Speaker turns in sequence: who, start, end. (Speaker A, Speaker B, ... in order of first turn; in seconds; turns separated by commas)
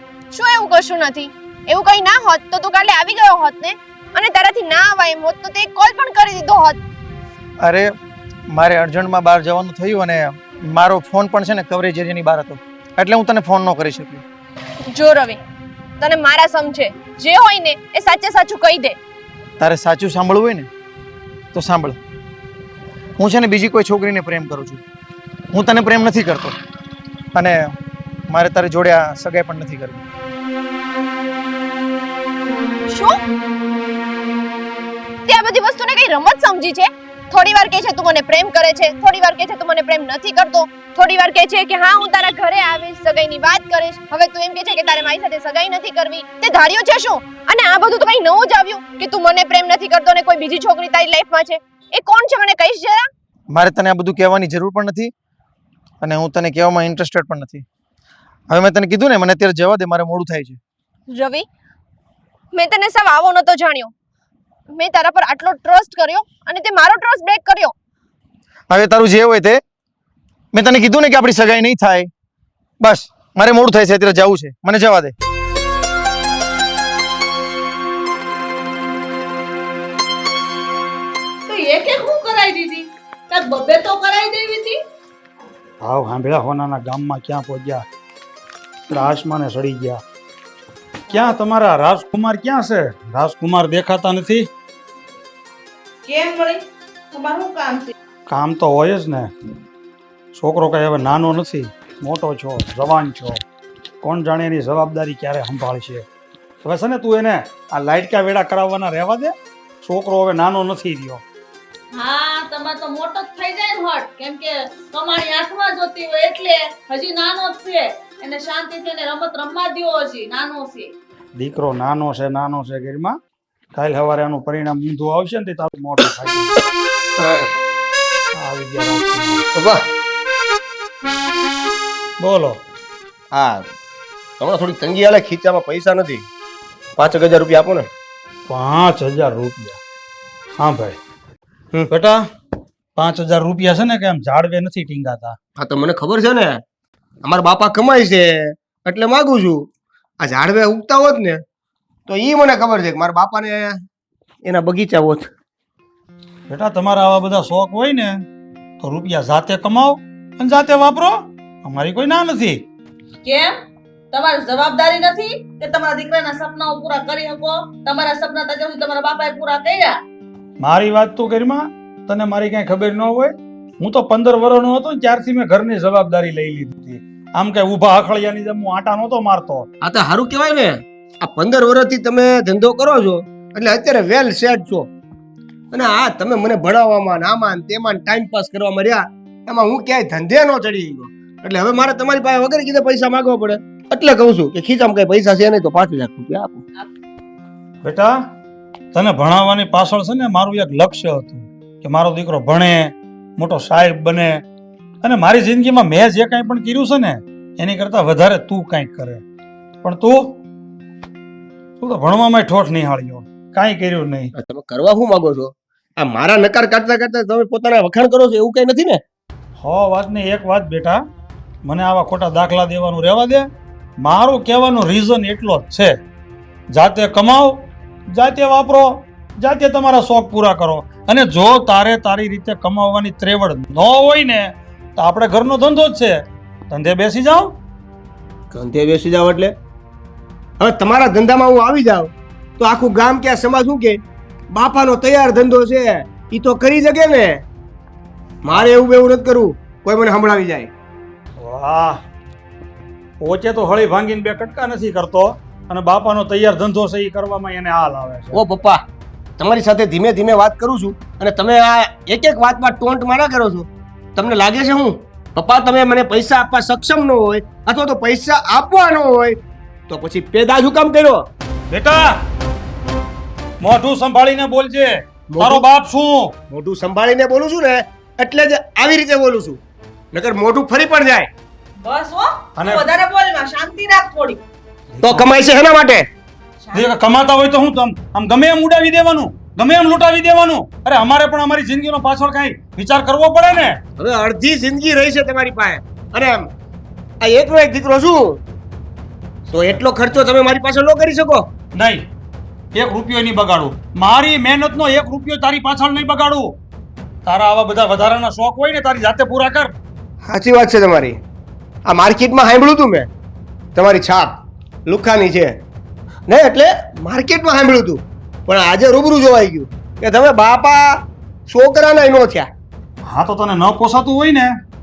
Speaker A: 0.3-6.8, Speaker B: 7.6-7.9, Speaker B: 8.5-14.2, Speaker A: 14.8-15.4, Speaker A: 16.0-19.0, Speaker B: 19.6-20.7, Speaker B: 21.5-22.0, Speaker B: 23.2-24.8, Speaker B: 25.5-26.6, Speaker B: 27.3-27.8, Speaker B: 28.3-30.0, Speaker A: 32.9-33.2, Speaker A: 35.3-53.1, Speaker B: 53.5-55.1, Speaker B: 56.0-57.7, Speaker B: 58.5-60.6, Speaker A: 61.1-61.5, Speaker A: 62.5-63.9, Speaker A: 64.7-67.7, Speaker B: 68.7-69.6, Speaker B: 70.5-72.1, Speaker B: 72.8-75.1, Speaker C: 81.5-84.8, Speaker D: 85.8-87.8, Speaker D: 88.9-90.0, Speaker D: 91.1-94.5, Speaker C: 96.0-97.9, Speaker D: 98.3-99.3, Speaker D: 100.3-103.4, Speaker D: 104.0-106.0, Speaker D: 106.6-111.2, Speaker C: 111.9-120.9, Speaker D: 121.3-123.2, Speaker D: 123.7-126.5, Speaker E: 127.2-127.5, Speaker D: 128.4-129.4, Speaker E: 129.6-129.8, Speaker D: 132.2-132.6, Speaker E: 133.3-133.7, Speaker E: 134.4-136.2, Speaker E: 137.0-137.9, Speaker D: 138.5-139.8, Speaker D: 140.6-141.0, Speaker D: 141.9-142.2, Speaker D: 142.9-145.4, Speaker E: 145.6-146.6, Speaker E: 147.2-149.7, Speaker E: 150.2-151.4, Speaker E: 152.1-153.8, Speaker E: 154.4-155.3, Speaker D: 156.5-158.2, Speaker D: 158.8-162.6, Speaker C: 163.2-163.6, Speaker C: 164.1-170.0, Speaker D: 170.6-179.7, Speaker E: 179.8-184.9, Speaker E: 185.7-196.6, Speaker D: 197.8-198.2, Speaker D: 198.9-204.4, Speaker D: 205.0-209.2, Speaker D: 209.8-210.4, Speaker D: 211.8-214.3, Speaker E: 214.3-219.0, Speaker D: 219.6-221.0, Speaker D: 221.6-223.5, Speaker D: 224.0-226.0, Speaker D: 226.7-237.6, Speaker E: 238.5-239.5, Speaker E: 240.6-244.0, Speaker E: 244.5-247.4, Speaker E: 248.4-250.7, Speaker D: 251.4-252.0, Speaker D: 253.2-258.4, Speaker E: 258.3-258.8, Speaker E: 259.4-269.4, Speaker E: 269.9-271.2, Speaker D: 271.7-272.2, Speaker D: 273.6-276.3, Speaker E: 275.3-275.6, Speaker E: 276.5-279.6, Speaker E: 280.1-281.3, Speaker C: 281.8-284.4, Speaker D: 282.6-282.9, Speaker D: 284.9-285.3, Speaker E: 285.0-286.1, Speaker C: 286.6-286.9, Speaker D: 286.7-293.8, Speaker E: 294.0-296.5, Speaker E: 297.2-298.4, Speaker E: 299.5-301.5, Speaker D: 301.7-302.0, Speaker D: 302.7-306.6, Speaker D: 307.2-309.7, Speaker E: 310.2-311.2, Speaker E: 311.9-313.1, Speaker E: 313.7-314.3, Speaker E: 314.9-315.6, Speaker E: 316.3-322.5, Speaker D: 323.1-324.6